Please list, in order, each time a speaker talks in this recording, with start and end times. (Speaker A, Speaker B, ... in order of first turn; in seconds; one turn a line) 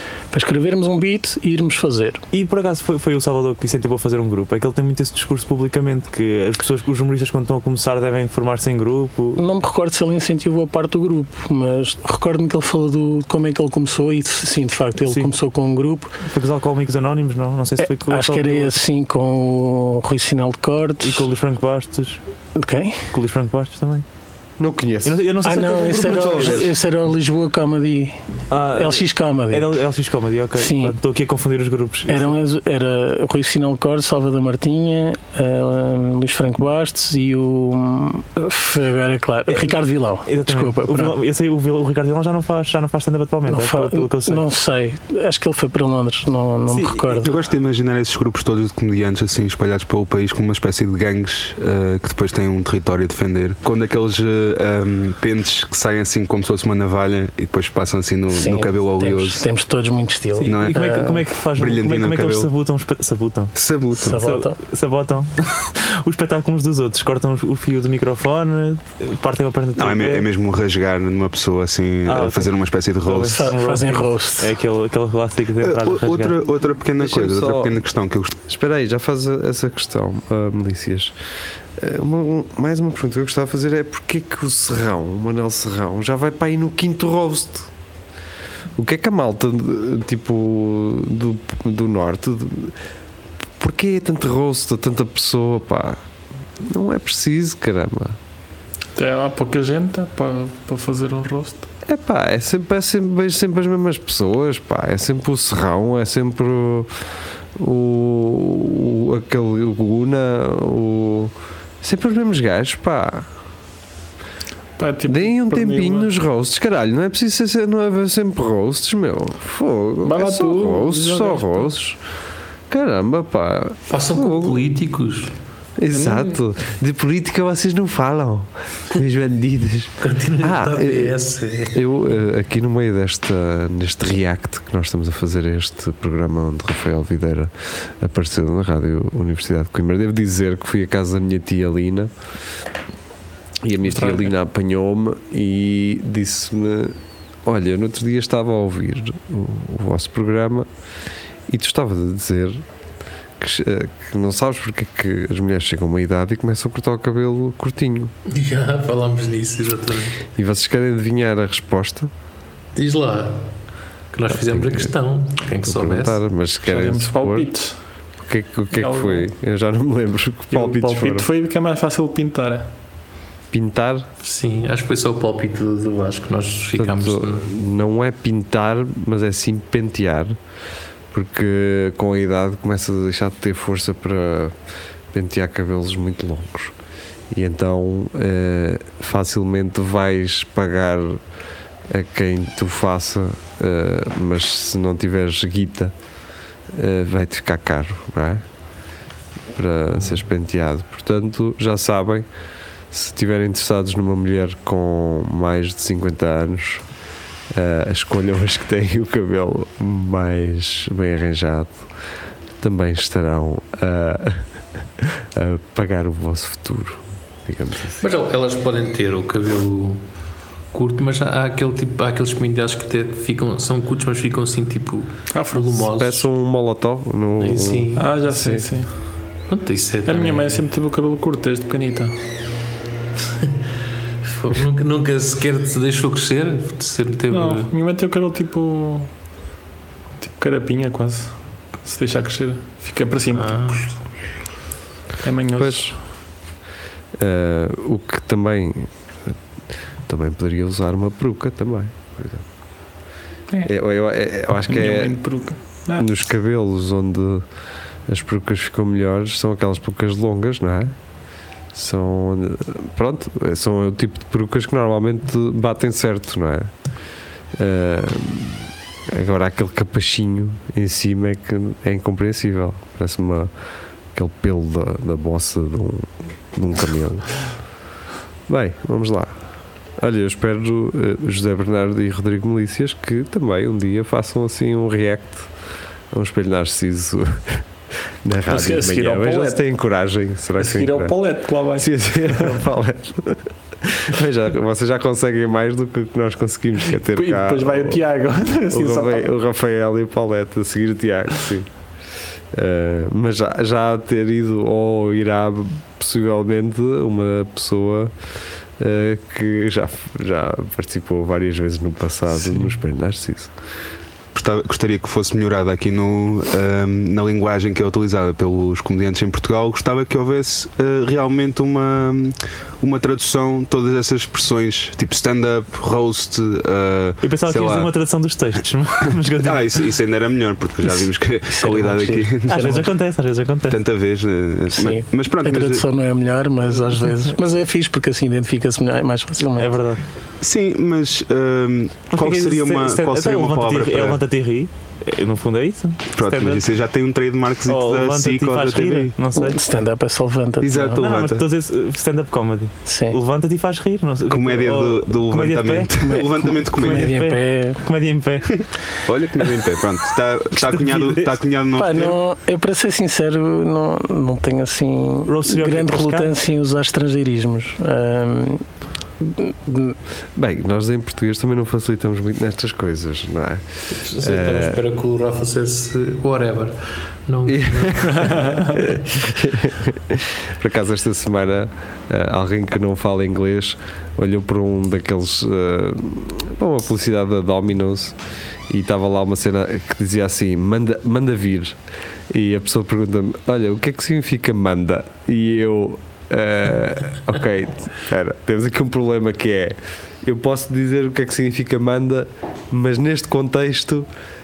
Speaker A: 0.3-2.2
Speaker B: 2.3-9.4
Speaker A: 9.3-16.1
Speaker B: 15.1-15.3
Speaker B: 16.2-18.7
Speaker A: 17.8-21.3
Speaker B: 21.0-22.2
Speaker A: 22.6-23.1
Speaker B: 23.1-24.0
Speaker C: 24.6-25.3
Speaker B: 25.0-26.7
Speaker A: 25.4-28.2
Speaker C: 26.0-26.6
Speaker B: 28.5-32.3
Speaker A: 28.7-29.7
Speaker A: 30.6-31.0
Speaker A: 32.1-41.2
Speaker B: 39.5-44.4
Speaker A: 43.5-47.3
Speaker B: 46.7-47.1
Speaker D: 47.2-59.4
Speaker A: 58.3-61.2
Speaker D: 60.4-62.5
Speaker B: 60.4-63.5
Speaker D: 63.5-64.2
Speaker A: 63.9-64.6
Speaker B: 64.0-70.3
Speaker D: 69.8-73.5
Speaker B: 72.0-72.5
Speaker B: 73.0-76.3
Speaker A: 73.2-74.5
Speaker D: 75.6-78.3
Speaker C: 77.0-77.7
Speaker C: 78.5-81.1
Speaker C: 81.8-87.7
Speaker C: 88.8-92.8
Speaker C: 93.6-96.0
Speaker C: 96.6-98.2
Speaker E: 99.0-101.7
Speaker C: 101.8-106.9
Speaker C: 107.5-113.3
Speaker E: 114.8-116.1
Speaker C: 115.1-122.0
Speaker E: 120.0-121.7
Speaker C: 122.7-124.6
Speaker F: 123.9-125.3
Speaker C: 125.8-131.2
Speaker E: 125.9-126.3
Speaker F: 130.0-131.8
Speaker C: 131.7-142.1
Speaker C: 143.6-150.7
Speaker E: 143.8-144.3
Speaker C: 151.5-152.6
Speaker C: 153.4-158.1
Speaker F: 158.3-160.2
Speaker C: 160.4-162.1
Speaker F: 162.8-163.5
Speaker F: 164.1-166.2
Speaker C: 164.3-164.9
Speaker C: 165.6-167.5
Speaker E: 166.7-167.8
Speaker C: 168.2-171.3
Speaker E: 168.7-169.2
Speaker E: 170.5-172.7
Speaker C: 173.5-174.1
Speaker F: 174.2-177.5
Speaker C: 176.8-180.3
Speaker C: 181.1-184.5
Speaker C: 185.1-186.7
Speaker C: 187.3-191.2
Speaker C: 191.9-195.9
Speaker C: 196.7-198.4
Speaker C: 199.5-202.3
Speaker C: 202.9-206.8
Speaker C: 207.5-211.9
Speaker C: 212.6-214.5
Speaker C: 215.0-218.1
Speaker F: 218.0-220.0
Speaker F: 220.7-226.2
Speaker E: 225.3-225.7
Speaker C: 225.8-228.7
Speaker F: 227.4-228.1
Speaker E: 227.9-228.9
Speaker F: 229.5-230.6
Speaker E: 230.1-232.1
Speaker F: 234.2-237.7
Speaker E: 237.3-239.1
Speaker E: 240.2-243.6
Speaker F: 243.3-243.9
Speaker E: 245.2-246.0
Speaker C: 245.6-245.9
Speaker C: 247.2-249.3
Speaker C: 250.1-252.4
Speaker C: 253.6-255.2
Speaker E: 254.5-256.1
Speaker C: 255.9-257.4
Speaker C: 258.1-260.9
Speaker C: 261.7-266.7
Speaker C: 267.6-273.5
Speaker C: 274.1-277.3
Speaker C: 278.5-279.3
Speaker C: 280.0-285.5
Speaker C: 286.1-287.6
Speaker C: 288.2-291.1
Speaker E: 288.5-289.6
Speaker E: 290.6-292.6
Speaker C: 291.8-298.0
Speaker E: 297.1-299.2
Speaker C: 298.7-301.7
Speaker C: 302.5-308.1
Speaker C: 308.8-313.5
Speaker D: 314.3-327.9
Speaker B: 327.2-329.8
Speaker D: 329.4-333.0
Speaker A: 331.5-332.8
Speaker B: 332.5-333.8
Speaker D: 333.7-335.8
Speaker A: 334.7-339.7
Speaker B: 339.6-340.0
Speaker D: 340.4-344.2
Speaker B: 342.1-346.7
Speaker D: 346.1-349.1
Speaker B: 347.6-349.6
Speaker A: 349.4-351.0
Speaker D: 350.6-351.5
Speaker B: 351.0-356.2
Speaker A: 352.9-353.2
Speaker D: 354.3-357.1
Speaker A: 356.0-357.8
Speaker B: 356.8-358.6
Speaker D: 359.1-362.2
Speaker B: 360.6-361.3
Speaker A: 361.8-368.6
Speaker B: 365.2-366.3
Speaker A: 369.2-369.9
Speaker C: 370.3-374.8
Speaker F: 373.9-378.9
Speaker C: 377.5-388.2
Speaker E: 378.2-378.6
Speaker C: 388.7-391.8
Speaker C: 392.3-404.1